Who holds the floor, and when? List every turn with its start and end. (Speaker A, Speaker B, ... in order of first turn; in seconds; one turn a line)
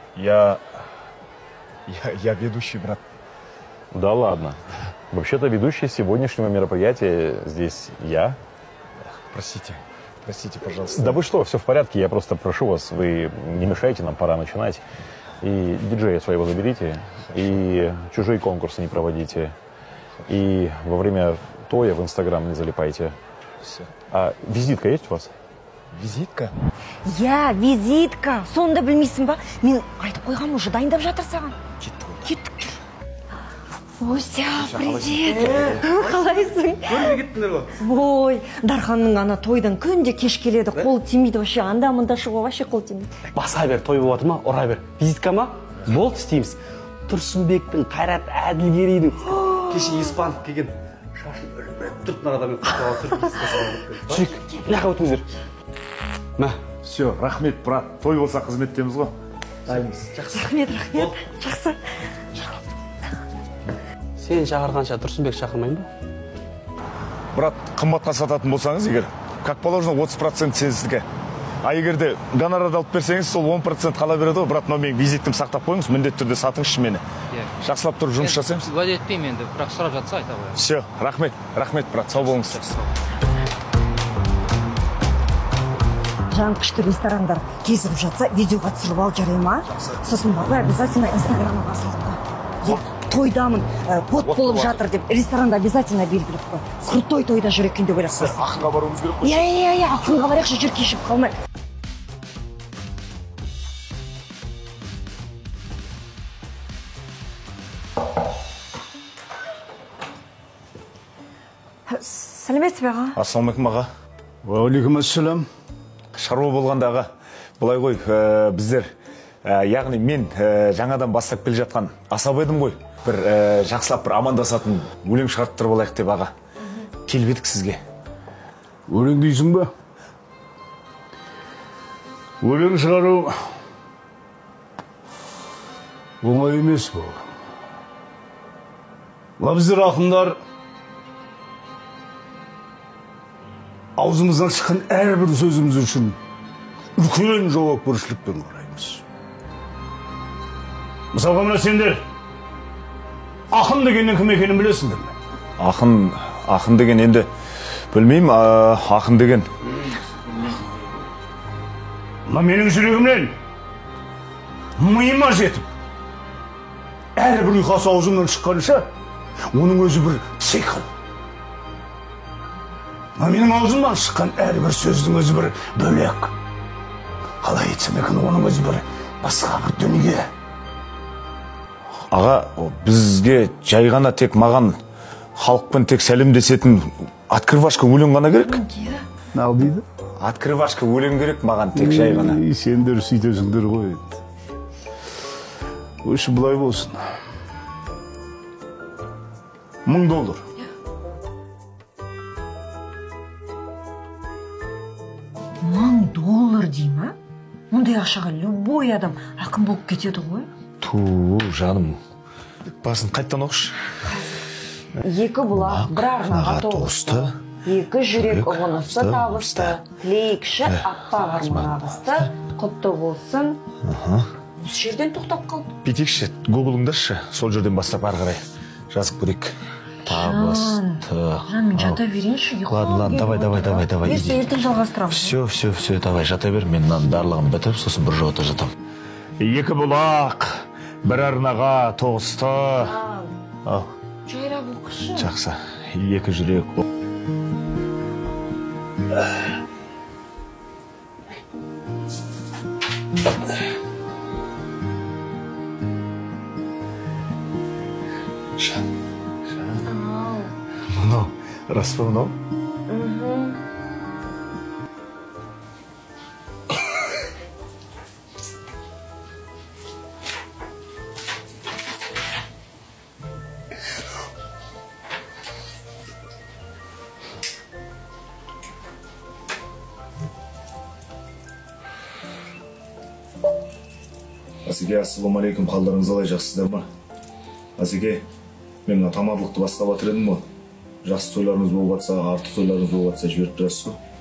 Speaker A: 0.1-0.6
Speaker A: 1.9-3.0
Speaker B: 3.9-4.6
Speaker B: 5.1-8.4
Speaker A: 9.1-11.2
Speaker B: 10.9-14.8
Speaker B: 15.4-19.5
Speaker B: 20.3-23.1
Speaker B: 24.1-25.3
Speaker A: 25.9-26.5
Speaker C: 27.0-31.6
Speaker A: 31.8-32.3
Speaker C: 32.2-32.8
Speaker C: 34.0-43.1
Speaker A: 34.6-35.8
Speaker D: 35.4-35.7
Speaker D: 37.0-37.7
Speaker D: 43.3-55.3
Speaker C: 49.4-50.0
Speaker C: 54.2-54.6
Speaker A: 56.8-59.1
Speaker D: 59.7-61.2
Speaker C: 60.3-61.8
Speaker D: 64.2-65.9
Speaker A: 67.3-71.0
Speaker A: 71.6-77.0
Speaker A: 77.6-78.7
Speaker E: 78.2-80.6
Speaker A: 80.5-82.7
Speaker E: 82.4-82.8
Speaker C: 86.3-98.4
Speaker A: 94.2-94.8
Speaker A: 98.1-99.5
Speaker C: 99.2-101.3
Speaker C: 111.9-113.2
Speaker A: 113.1-113.9
Speaker F: 114.4-115.5
Speaker A: 116.1-118.9
Speaker A: 119.4-126.3
Speaker A: 127.0-127.8
Speaker F: 128.9-129.7
Speaker F: 132.4-133.3
Speaker F: 136.2-137.2
Speaker F: 139.4-140.4
Speaker F: 144.0-146.2
Speaker F: 147.0-149.0
Speaker F: 151.1-152.0
Speaker F: 153.5-155.1
Speaker A: 155.6-157.3
Speaker A: 157.9-159.5
Speaker F: 162.3-163.3
Speaker F: 164.8-165.7
Speaker F: 167.2-168.9
Speaker F: 169.5-170.9
Speaker F: 173.2-176.3
Speaker F: 177.4-180.3
Speaker A: 182.1-184.8
Speaker A: 185.4-188.6
Speaker C: 188.4-189.0
Speaker F: 189.3-189.8
Speaker A: 190.2-192.4
Speaker F: 191.7-194.2
Speaker F: 196.0-197.0
Speaker F: 199.8-200.4
Speaker C: 205.6-207.2
Speaker C: 207.7-210.5
Speaker A: 210.8-212.0
Speaker A: 212.7-213.9
Speaker C: 214.0-214.4
Speaker C: 215.0-223.6
Speaker A: 215.5-217.3
Speaker A: 218.1-219.8
Speaker A: 221.4-221.7
Speaker A: 223.8-224.3
Speaker C: 224.6-225.7
Speaker A: 225.8-229.5
Speaker A: 230.1-232.0
Speaker C: 230.1-235.3
Speaker A: 232.7-234.6
Speaker A: 235.1-238.7
Speaker A: 239.4-242.9
Speaker C: 242.8-243.3
Speaker A: 243.6-243.9
Speaker C: 244.3-245.3
Speaker A: 245.1-246.8
Speaker A: 259.6-259.8
Speaker C: 259.8-260.5
Speaker A: 260.9-262.3
Speaker C: 262.9-263.6
Speaker A: 284.6-286.9
Speaker A: 287.8-288.2
Speaker A: 288.9-290.4
Speaker A: 291.0-294.0